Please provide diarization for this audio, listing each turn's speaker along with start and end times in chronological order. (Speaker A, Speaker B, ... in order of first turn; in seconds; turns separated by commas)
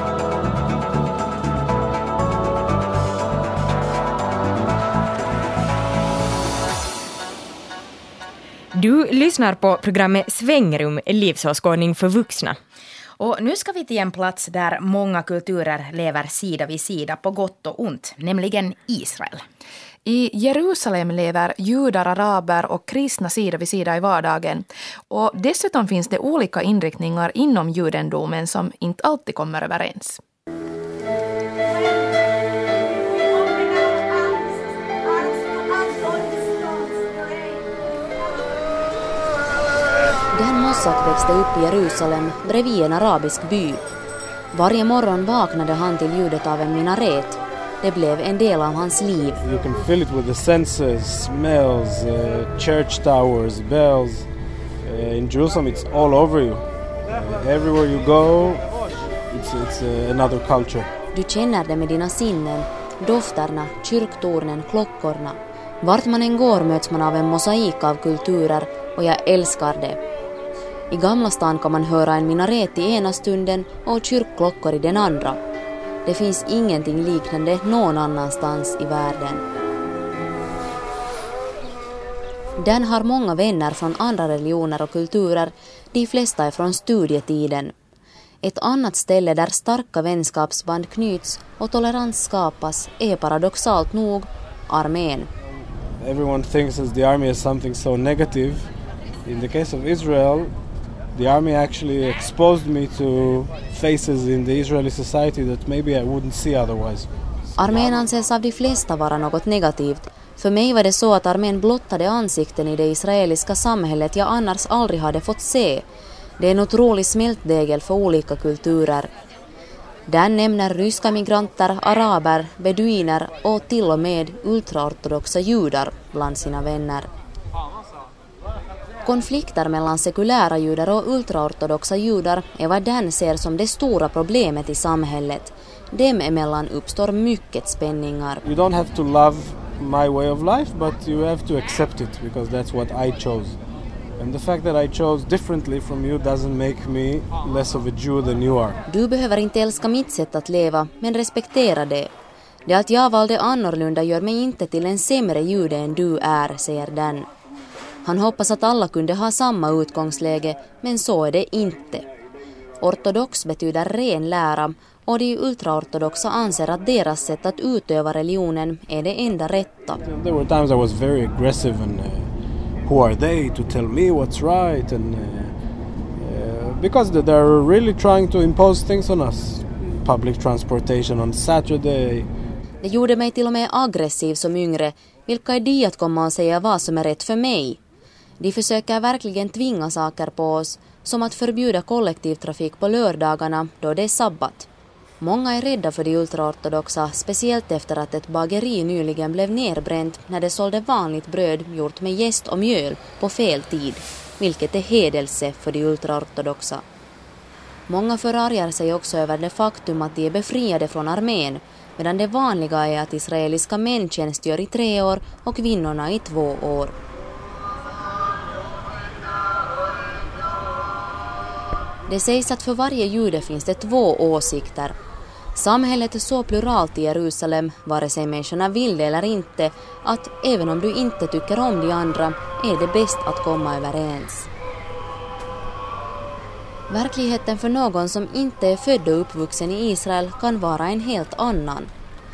Speaker A: 8.7-12.6, Speaker B: 13.2-19.4, Speaker C: 20.0-30.2, Speaker D: 40.3-43.8, Speaker D: 44.5-49.4, Speaker E: 49.4-54.3, Speaker E: 54.8-58.7, Speaker E: 59.3-60.9, Speaker D: 61.1-70.0, Speaker D: 70.9-75.4, Speaker D: 76.0-79.4, Speaker D: 82.6-87.7, Speaker D: 88.4-95.3, Speaker E: 96.0-98.7, Speaker E: 99.2-100.5, Speaker E: 101.1-107.1, Speaker D: 107.6-115.8, Speaker D: 116.4-119.1, Speaker D: 120.1-127.1, Speaker D: 129.0-138.4, Speaker E: 138.4-143.6, Speaker E: 144.2-148.8, Speaker D: 148.9-152.1, Speaker D: 152.7-157.3, Speaker D: 158.0-162.1, Speaker D: 162.8-170.0, Speaker E: 170.0-172.3, Speaker E: 172.8-175.5, Speaker E: 176.2-182.3, Speaker D: 182.8-187.8, Speaker D: 188.4-194.7, Speaker D: 195.2-206.8, Speaker D: 207.9-216.9, Speaker D: 222.1-224.9, Speaker D: 225.6-234.5, Speaker D: 236.9-241.9